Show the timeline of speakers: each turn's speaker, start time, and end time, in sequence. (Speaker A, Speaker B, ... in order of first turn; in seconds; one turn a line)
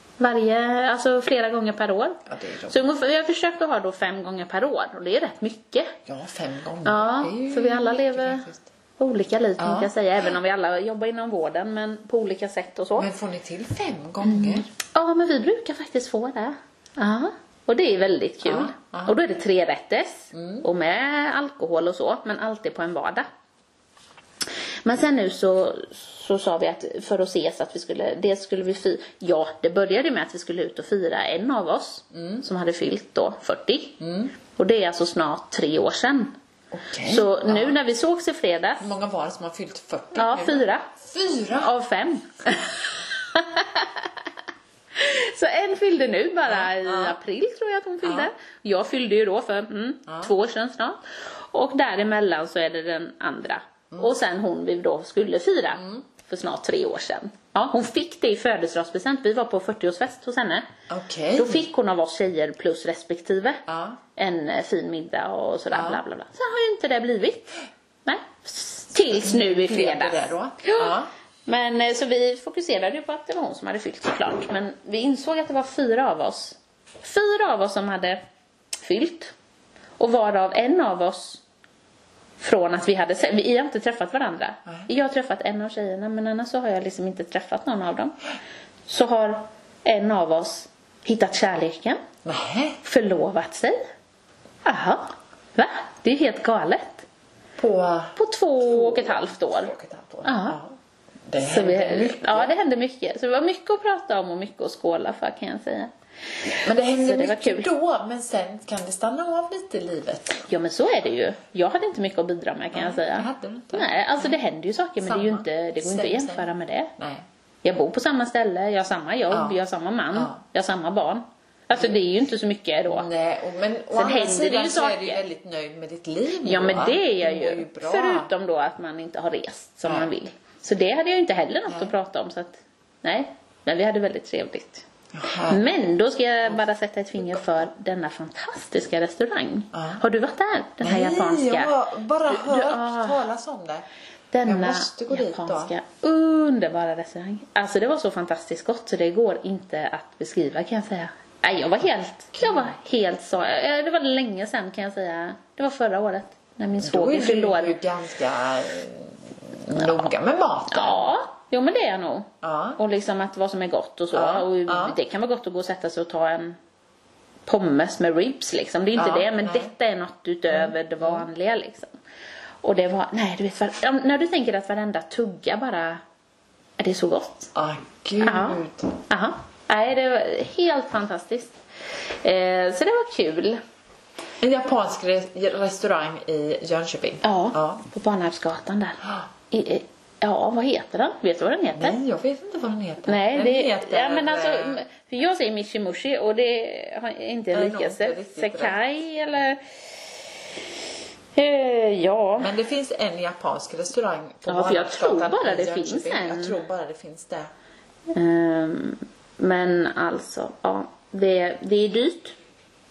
Speaker A: 0.2-5.9
Speaker B: 2.3-2.8
Speaker B: 6.0-8.7
Speaker A: 6.8-8.4
Speaker A: 9.0-13.1
Speaker B: 9.6-9.9
Speaker B: 13.0-14.7
Speaker A: 14.2-23.3
Speaker B: 18.4-19.2
Speaker B: 20.3-20.6
Speaker A: 24.8-34.0
Speaker B: 32.1-32.4
Speaker B: 34.0-34.3
Speaker A: 34.5-36.3
Speaker B: 36.7-37.8
Speaker A: 37.0-38.9
Speaker B: 38.8-41.7
Speaker A: 40.1-40.9
Speaker A: 41.5-44.1
Speaker A: 44.9-51.0
Speaker B: 46.4-47.2
Speaker B: 48.0-48.3
Speaker B: 50.1-50.3
Speaker A: 51.5-60.7
Speaker B: 55.8-56.0
Speaker B: 60.9-61.6
Speaker A: 61.4-67.5
Speaker B: 63.7-64.0
Speaker B: 65.7-66.0
Speaker A: 68.0-70.9
Speaker B: 69.0-71.1
Speaker A: 71.5-78.2
Speaker A: 78.8-79.3
Speaker A: 80.0-81.4
Speaker A: 82.4-88.2
Speaker A: 88.9-92.0
Speaker B: 92.2-92.8
Speaker A: 92.8-93.8
Speaker A: 94.6-97.0
Speaker B: 97.6-100.7
Speaker A: 98.2-99.7
Speaker A: 100.2-100.6
Speaker B: 101.3-102.5
Speaker A: 101.4-105.9
Speaker A: 106.4-107.7
Speaker B: 106.6-110.5
Speaker A: 110.4-116.9
Speaker B: 112.7-114.3
Speaker B: 115.0-117.2
Speaker A: 117.6-123.1
Speaker B: 119.3-119.6
Speaker B: 122.9-128.3
Speaker A: 123.9-125.2
Speaker A: 126.4-134.8
Speaker B: 129.8-130.1
Speaker B: 131.7-131.9
Speaker B: 135.1-135.6
Speaker A: 135.4-141.7
Speaker B: 139.7-140.0
Speaker B: 140.8-143.8
Speaker A: 142.3-143.2
Speaker A: 144.3-157.8
Speaker B: 144.4-145.7
Speaker B: 152.4-152.7
Speaker B: 156.8-161.2
Speaker A: 160.7-166.6
Speaker B: 162.4-162.8
Speaker B: 164.1-165.0
Speaker A: 167.5-171.9
Speaker B: 168.9-169.7
Speaker B: 170.5-171.3
Speaker A: 172.6-176.0
Speaker A: 176.8-177.5
Speaker B: 177.5-178.9
Speaker A: 178.2-181.6
Speaker A: 182.2-183.6
Speaker B: 184.4-187.8
Speaker A: 187.2-192.0
Speaker B: 191.8-194.8
Speaker A: 193.0-199.6
Speaker B: 197.5-198.8
Speaker A: 201.3-202.5
Speaker B: 202.4-207.5
Speaker A: 204.5-206.6
Speaker A: 208.1-212.3